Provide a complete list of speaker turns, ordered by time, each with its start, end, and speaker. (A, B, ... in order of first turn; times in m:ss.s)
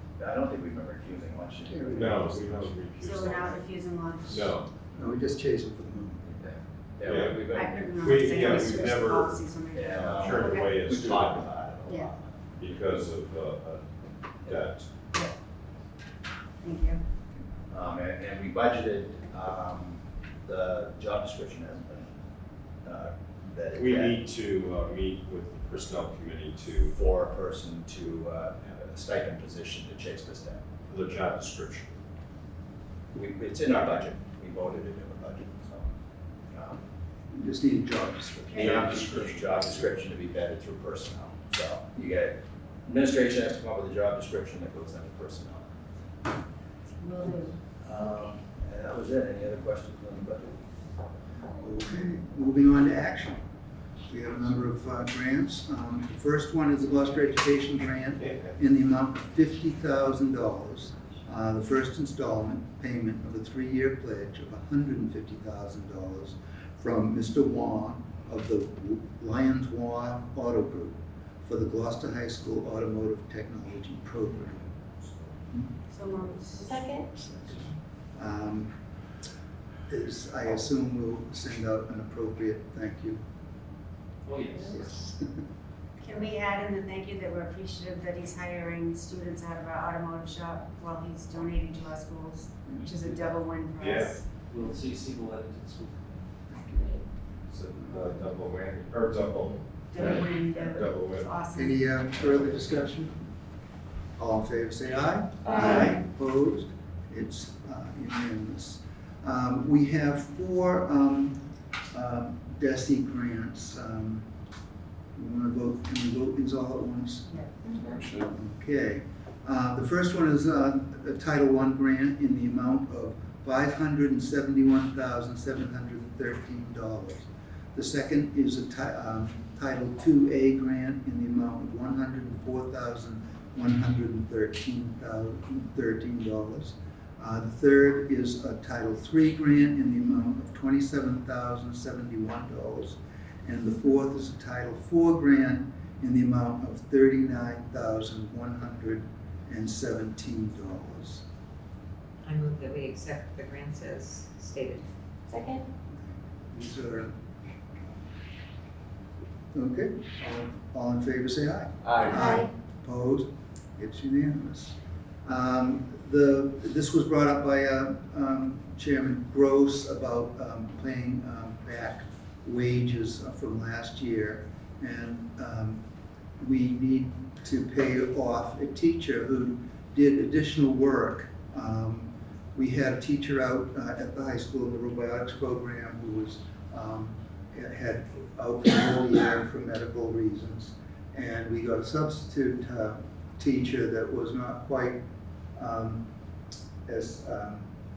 0:00.2-0:02.0 A
0:01.7-0:02.7 B
0:01.9-0:03.6 C
0:03.0-0:04.6 D
0:04.3-0:04.7 C
0:04.9-0:06.4 B
0:06.4-0:08.0 A
0:07.0-0:07.4 C
0:07.5-0:10.8 D
0:08.0-0:11.6 C
0:09.7-0:12.4 A
0:11.9-0:12.1 D
0:12.6-0:13.8 C
0:14.4-0:14.9 C
0:16.6-0:17.0 D
0:17.7-0:22.1 A
0:22.8-0:24.2 A
0:23.7-0:27.0 C
0:26.9-0:30.7 A
0:30.9-0:32.0 C
0:33.1-0:35.9 A
0:36.5-0:36.8 A
0:37.3-0:39.0 B
0:38.5-0:45.7 A
0:38.5-0:38.9 D
0:38.6-0:39.5 C
0:47.0-0:47.6 D
0:47.8-0:50.6 A
0:51.6-0:53.4 B
0:54.1-1:14.8 B
0:58.2-0:58.6 C
1:15.9-1:17.0 D
1:16.6-1:17.1 E
1:17.2-1:18.8 B
1:19.9-1:23.2 B
1:24.3-1:25.0 F
1:24.6-1:25.4 B
1:26.0-1:34.2 D
1:33.8-1:34.1 C
1:34.5-1:36.1 F
1:36.5-1:37.0 B
1:37.5-1:41.3 C
1:39.9-1:42.0 D
1:41.5-1:43.2 B
1:44.2-1:51.4 B
1:45.6-1:45.8 E
1:51.9-1:54.3 B
1:55.2-2:31.2 B
1:57.7-1:58.0 E
2:32.2-2:34.8 G
2:35.3-2:35.6 E
2:35.9-2:37.2 B
2:39.5-2:55.8 B
2:41.8-2:42.4 A
2:42.1-2:42.5 E
2:56.4-3:15.0 B
3:15.6-3:16.1 B
3:16.9-3:17.7 B